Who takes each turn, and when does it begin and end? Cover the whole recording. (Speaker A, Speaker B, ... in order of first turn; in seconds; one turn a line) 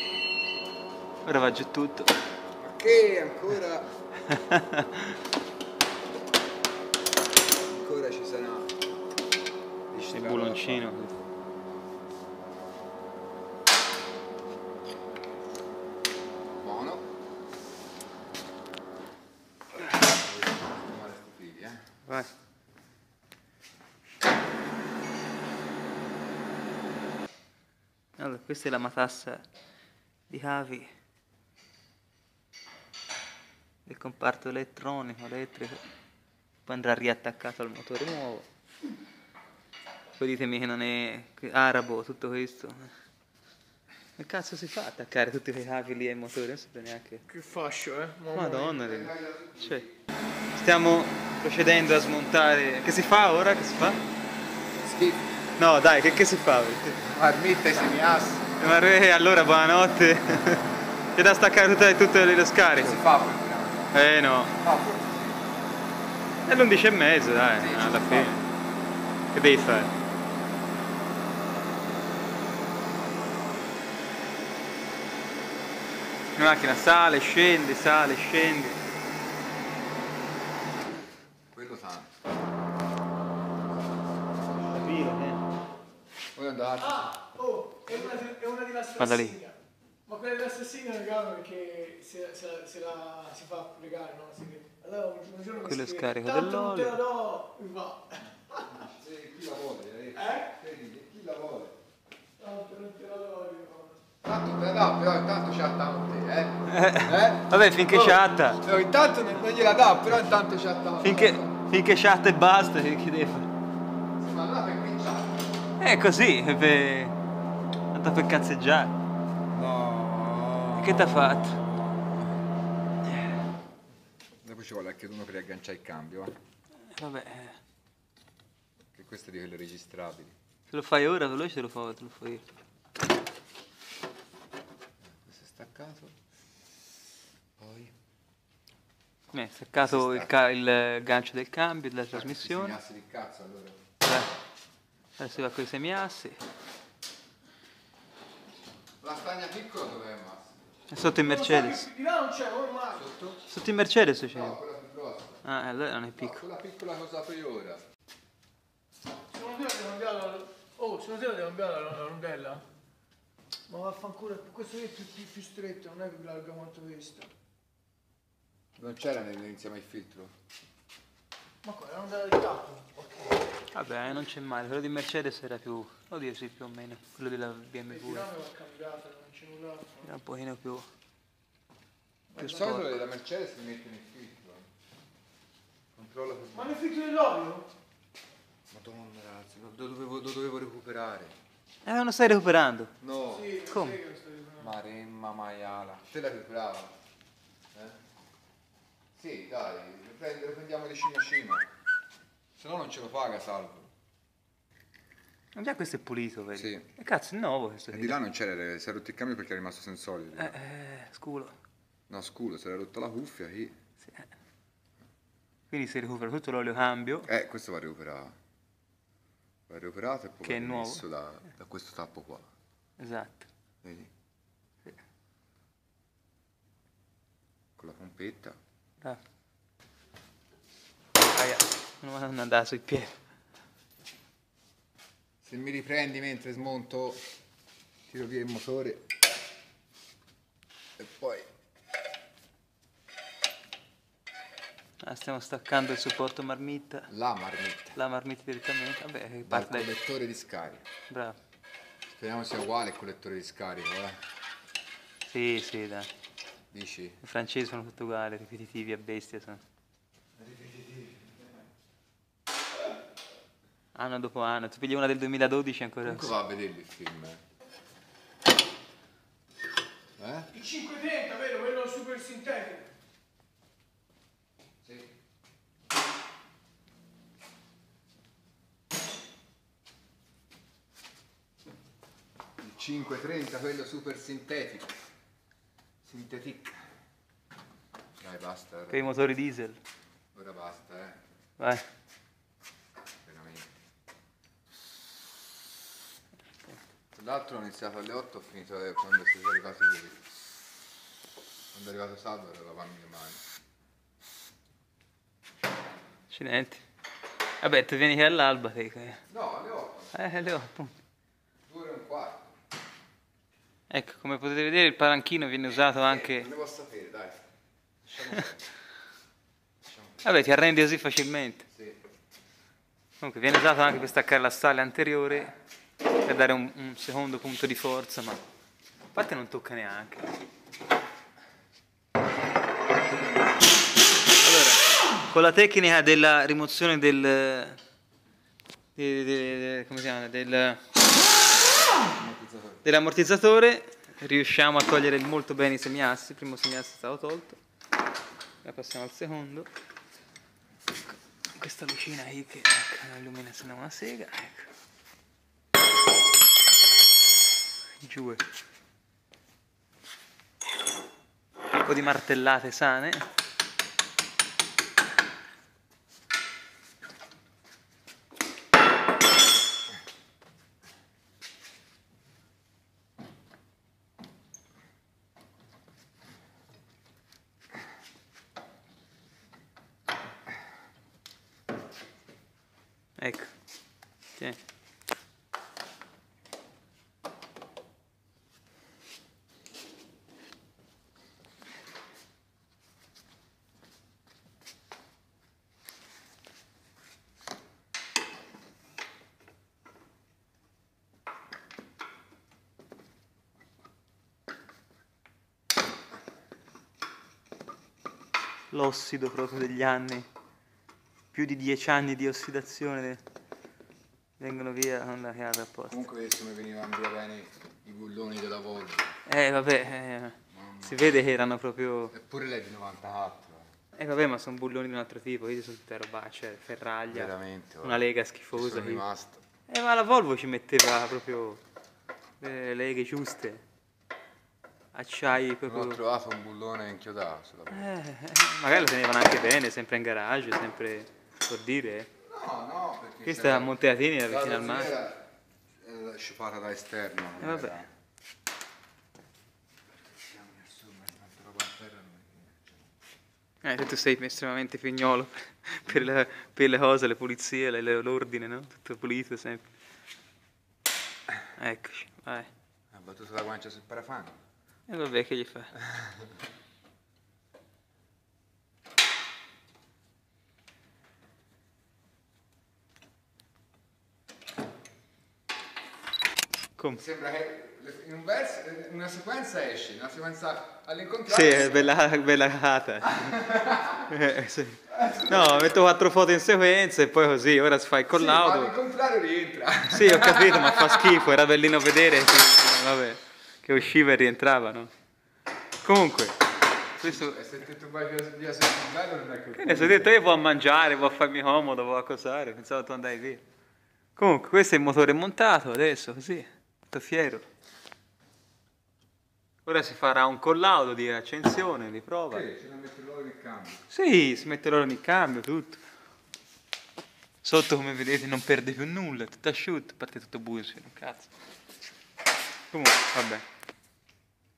Speaker A: 1.3-2.1
Speaker B: 2.6-3.9
Speaker A: 4.3-5.2
Speaker B: 7.6-8.7
Speaker B: 9.9-11.0
Speaker A: 10.1-11.1
Speaker B: 16.6-17.1
Speaker B: 19.8-21.8
Speaker A: 28.2-29.4
Speaker A: 30.3-30.9
Speaker A: 33.9-35.8
Speaker A: 36.7-38.5
Speaker A: 40.2-42.9
Speaker A: 44.2-47.2
Speaker C: 47.3-48.9
Speaker A: 48.3-49.9
Speaker B: 48.8-50.0
Speaker A: 50.6-54.0
Speaker B: 54.8-55.3
Speaker A: 55.6-57.0
Speaker B: 57.0-58.5
Speaker A: 58.6-63.0
Speaker B: 62.8-65.7
Speaker A: 63.9-64.5
Speaker A: 66.5-68.4
Speaker B: 67.6-68.4
Speaker A: 69.3-69.9
Speaker A: 76.4-78.8
Speaker B: 81.5-82.1
Speaker C: 84.5-85.1
Speaker A: 84.6-85.4
Speaker B: 86.3-87.1
Speaker C: 86.8-98.8
Speaker A: 89.0-89.4
Speaker A: 95.6-97.0
Speaker B: 98.7-101.8
Speaker C: 102.4-104.0
Speaker B: 104.2-111.5
Speaker A: 106.7-108.6
Speaker A: 111.0-113.5
Speaker B: 114.2-115.5
Speaker A: 115.8-117.1
Speaker A: 117.9-118.9
Speaker B: 119.5-122.2
Speaker A: 120.7-121.6
Speaker B: 124.4-126.4
Speaker A: 126.9-127.6
Speaker B: 128.9-130.4
Speaker A: 130.7-132.4
Speaker B: 135.1-136.2
Speaker B: 137.6-137.9
Speaker A: 139.3-142.8
Speaker B: 139.8-140.3
Speaker B: 142.1-143.8
Speaker A: 144.0-144.3
Speaker A: 145.2-146.4
Speaker B: 149.0-150.6
Speaker A: 150.9-151.9
Speaker C: 151.2-153.1
Speaker B: 152.9-153.4
Speaker A: 153.5-154.6
Speaker B: 154.3-155.4
Speaker A: 155.4-156.4
Speaker B: 156.2-157.8
Speaker C: 159.3-162.7
Speaker C: 163.7-167.3
Speaker B: 168.8-170.3
Speaker C: 171.6-173.5
Speaker A: 173.7-178.3
Speaker C: 177.9-180.1
Speaker A: 180.0-180.9
Speaker B: 182.4-184.7
Speaker A: 182.4-183.0
Speaker B: 185.9-186.8
Speaker C: 186.5-187.7
Speaker B: 188.7-191.4
Speaker A: 191.8-192.9
Speaker B: 193.0-193.6
Speaker C: 193.3-194.7
Speaker A: 193.7-194.0
Speaker B: 194.6-196.9
Speaker B: 197.7-198.0
Speaker B: 199.2-201.7
Speaker B: 202.6-203.9
Speaker A: 205.6-208.2
Speaker B: 206.6-206.9
Speaker B: 207.9-210.6
Speaker A: 210.4-211.6
Speaker B: 212.1-213.8
Speaker A: 215.7-217.3
Speaker B: 217.3-218.4
Speaker B: 219.7-222.5
Speaker A: 220.4-221.0
Speaker A: 223.0-223.5
Speaker B: 223.8-224.1
Speaker B: 227.8-228.6
Speaker A: 231.2-233.2
Speaker B: 235.4-237.2
Speaker B: 238.1-239.1
Speaker B: 241.0-241.5
Speaker A: 245.0-247.1
Speaker B: 247.1-248.0
Speaker A: 248.0-249.9
Speaker B: 249.5-250.8
Speaker A: 251.1-251.4
Speaker B: 252.1-254.2
Speaker A: 255.3-256.1
Speaker B: 256.7-257.2
Speaker A: 257.2-259.6
Speaker B: 260.4-261.5
Speaker A: 263.9-266.3
Speaker B: 266.0-267.4
Speaker B: 270.2-270.5
Speaker C: 270.5-272.9
Speaker B: 274.8-275.1
Speaker B: 282.6-285.0
Speaker B: 286.0-286.9
Speaker B: 288.2-289.1
Speaker A: 288.9-289.8
Speaker B: 290.3-291.2
Speaker A: 291.6-291.8
Speaker B: 293.2-293.7
Speaker B: 297.1-300.4
Speaker B: 301.7-303.4
Speaker A: 306.3-306.8
Speaker A: 307.6-309.2
Speaker B: 309.3-310.2
Speaker A: 310.1-310.9
Speaker B: 311.7-312.6
Speaker A: 313.9-316.5
Speaker B: 316.0-317.4
Speaker B: 318.1-318.6
Speaker B: 319.8-320.3
Speaker A: 320.2-321.6
Speaker B: 321.7-322.0
Speaker A: 323.2-325.5
Speaker A: 326.2-328.4
Speaker A: 329.1-330.3
Speaker A: 334.4-337.8
Speaker A: 339.0-340.8
Speaker B: 342.1-342.8
Speaker A: 342.8-347.6
Speaker A: 348.6-349.7
Speaker A: 351.6-354.7
Speaker A: 358.0-358.4
Speaker A: 361.8-363.3
Speaker A: 383.2-383.5
Speaker A: 408.7-410.3
Speaker A: 411.3-413.2
Speaker A: 414.4-416.0
Speaker B: 415.9-419.1
Speaker A: 419.3-422.1
Speaker B: 420.5-421.1
Speaker B: 422.1-423.7
Speaker A: 424.0-429.0
Speaker B: 427.1-429.4
Speaker A: 429.7-431.6
Speaker A: 432.4-433.6
Speaker A: 434.9-436.0
Speaker B: 435.7-438.0
Speaker A: 437.7-442.1
Speaker B: 442.2-443.7
Speaker A: 443.3-444.9
Speaker B: 444.3-445.3
Speaker B: 445.8-447.9
Speaker A: 447.4-447.8
Speaker B: 450.1-452.9
Speaker A: 453.6-459.6
Speaker A: 461.6-462.5
Speaker B: 462.9-464.3
Speaker A: 464.9-465.7
Speaker B: 465.9-466.2
Speaker B: 476.9-481.9
Speaker A: 481.3-483.4
Speaker B: 483.1-484.1
Speaker A: 484.0-488.7
Speaker B: 484.9-485.8
Speaker B: 488.1-491.2
Speaker A: 489.9-494.9
Speaker A: 495.8-496.4
Speaker A: 497.0-497.4
Speaker B: 497.0-500.2
Speaker A: 499.6-503.4
Speaker A: 504.2-507.4
Speaker A: 509.7-512.5
Speaker B: 512.3-513.8
Speaker A: 513.9-515.8
Speaker A: 517.4-521.3
Speaker A: 522.7-523.4